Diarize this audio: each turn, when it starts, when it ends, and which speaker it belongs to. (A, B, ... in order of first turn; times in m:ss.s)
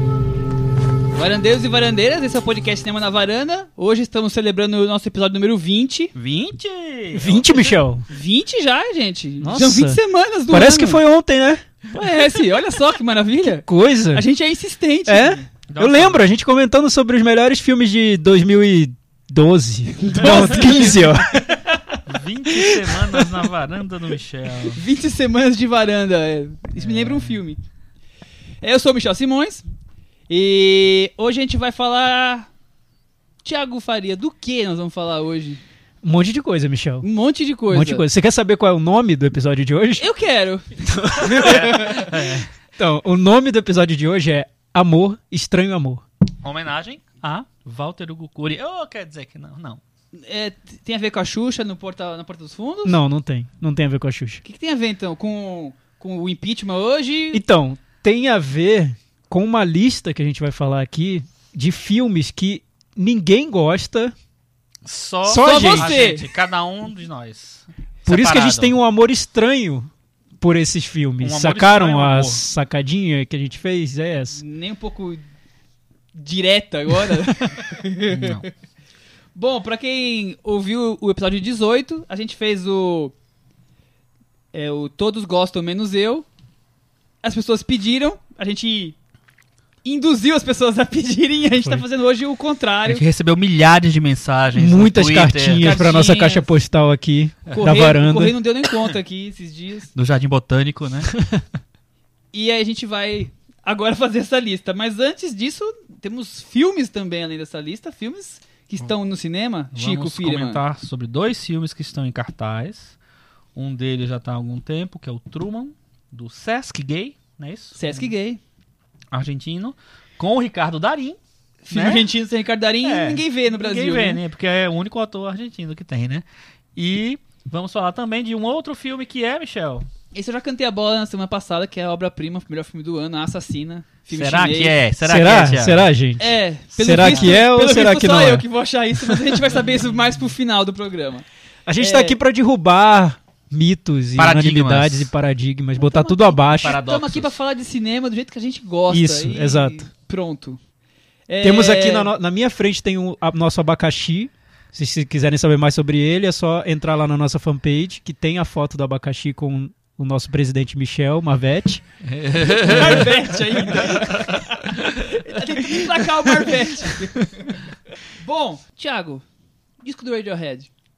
0:01.2-0:06.1 A
0:06.2-0:07.8 B
0:07.1-0:08.0 C
0:08.1-0:11.0 A
0:09.4-0:11.6 C
0:11.9-0:15.5 A
0:13.4-0:14.3 C
0:15.1-0:21.6 C
0:15.7-0:16.3 B
0:20.0-0:22.0 A
0:20.2-0:20.6 B
0:22.1-0:24.8 B
0:24.6-0:27.6 A
0:26.8-0:27.4 B
0:28.6-0:29.6 A
0:30.3-0:32.5 A
0:33.4-0:35.6 A
0:36.0-0:37.1 C
0:37.0-0:38.0 A
0:37.7-0:40.1 C
0:40.0-0:40.7 A
0:40.8-0:46.0 C
0:41.3-0:42.5 B
0:41.3-0:42.0 A
0:46.4-0:49.8 B
0:50.1-0:53.0 A
0:52.8-0:54.4 C
0:54.4-0:57.4 A
0:57.3-1:04.1 C
1:04.8-1:08.8 B
1:05.2-1:06.1 C
1:05.4-1:06.3 A
1:08.1-1:09.9 C
1:10.4-1:14.4 C
1:11.2-1:12.4 B
1:14.3-1:15.2 A
1:16.1-1:18.5 A
1:18.1-1:18.5 B
1:19.4-1:23.1 A
1:24.5-1:26.3 A
1:27.2-1:29.0 A
1:29.8-1:33.0 A
1:32.9-1:35.8 B
1:34.6-1:38.4 C
1:35.6-1:36.5 A
1:37.5-1:39.9 A
1:40.0-1:41.1 B
1:42.3-1:50.6 A
1:49.7-1:53.0 B
1:53.6-1:58.1 B
1:57.8-1:58.4 A
1:59.1-2:01.2 B
2:01.7-2:04.2 A
2:01.7-2:02.1 B
2:02.8-2:06.2 B
2:06.8-2:09.9 B
2:10.1-2:14.8 A
2:14.1-2:15.9 B
2:15.0-2:18.4 C
2:16.2-2:21.2 A
2:17.0-2:17.3 B
2:21.7-2:26.8 C
2:21.8-2:22.2 A
2:24.2-2:25.1 B
2:25.8-2:30.6 A
2:26.6-2:27.4 B
2:28.9-2:29.9 C
2:31.3-2:32.1 A
2:31.4-2:41.8 C
2:42.0-2:45.2 B
2:42.4-2:44.4 A
2:42.6-2:43.2 C
2:45.0-2:49.2 A
2:46.2-2:47.0 C
2:49.8-2:50.7 A